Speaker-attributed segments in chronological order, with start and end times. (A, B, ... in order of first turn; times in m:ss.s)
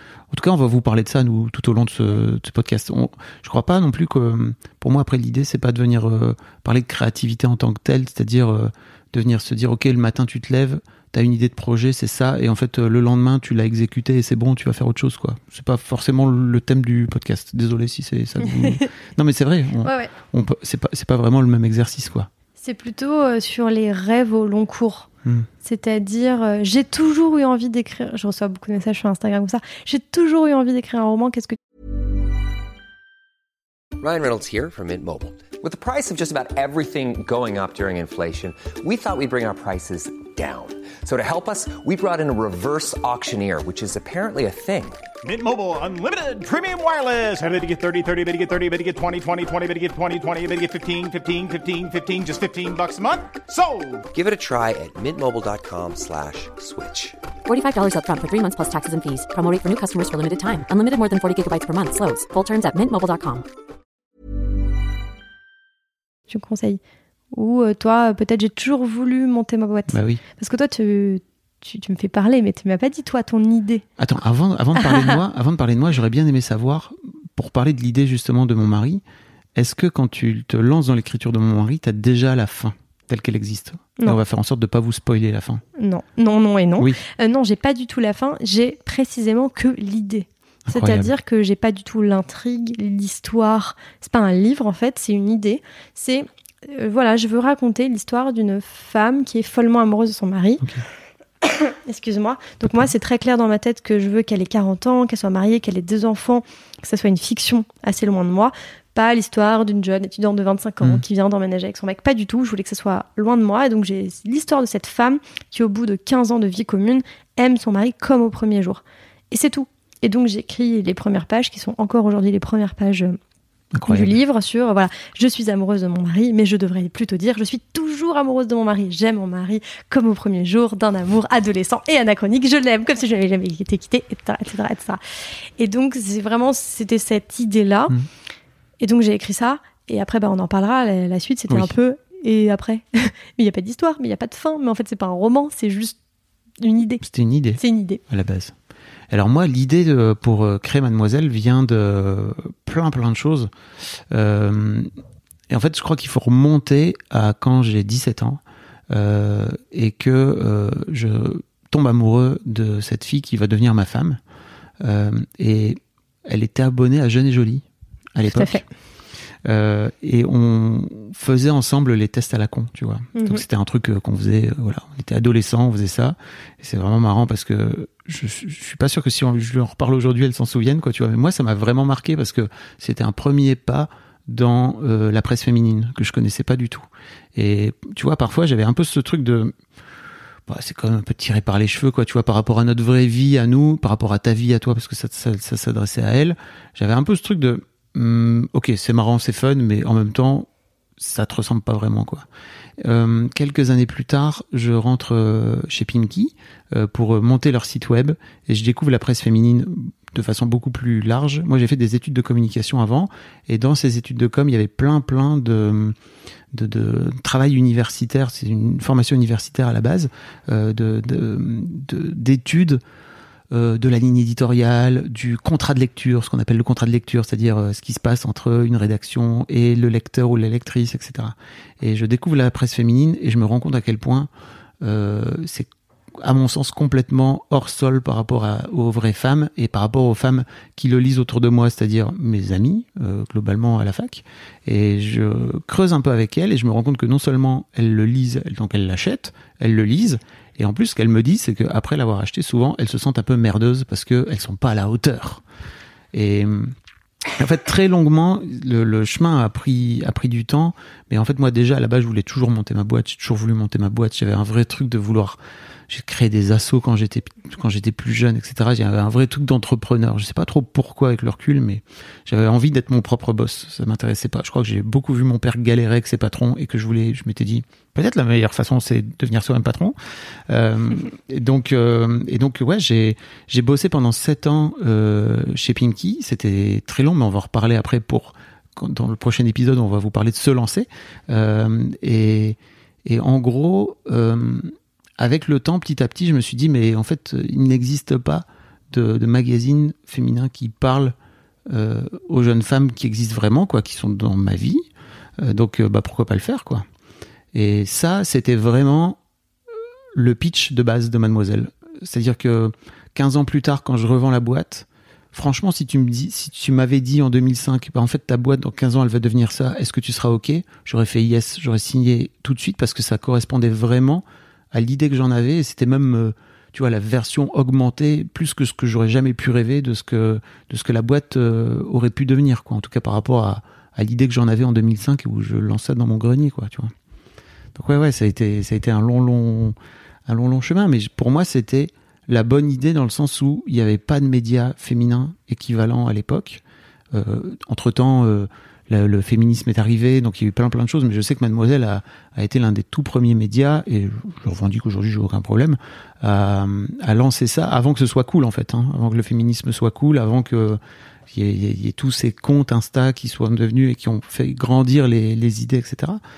0:00.3-0:22.3 A
0:18.4-0:18.8 B
0:19.8-0:20.1 B
0:22.6-0:25.1 B
0:25.6-0:31.6 B
0:34.0-0:45.0 C
0:45.2-0:54.1 D
0:54.1-0:57.2 C
0:57.4-1:03.4 E
1:06.3-1:06.8 B
1:07.3-1:13.8 B
1:09.9-1:10.2 A
1:14.0-1:19.0 A
1:19.6-1:25.6 A
1:25.8-1:40.6 B
1:30.7-1:31.1 A
1:41.4-2:03.2 B
2:03.7-2:04.1 A
2:03.9-2:15.0 B
2:15.6-2:17.9 B
2:18.8-2:26.0 B
2:26.6-2:27.0 B
2:27.0-2:28.5 A
2:27.6-2:28.0 B
2:29.1-2:33.5 A
2:34.1-2:34.9 A
2:35.5-2:44.2 A
2:44.8-2:48.6 A
2:48.3-2:48.6 B
2:49.4-3:09.5 A
2:53.1-2:53.4 B
3:10.5-3:22.2 A
3:22.8-3:35.9 A
3:36.5-3:42.8 A
3:43.5-3:54.3 A
3:54.8-4:15.4 A
4:16.1-4:16.7 A
4:17.4-4:39.9 A
4:40.5-5:01.1 A
5:01.7-5:04.9 A
5:05.4-5:06.8 A
5:07.5-5:09.2 A
5:10.1-5:36.9 A
5:37.7-5:39.8 A
5:40.3-5:46.6 A
5:47.1-6:00.8 A
6:01.3-6:06.2 A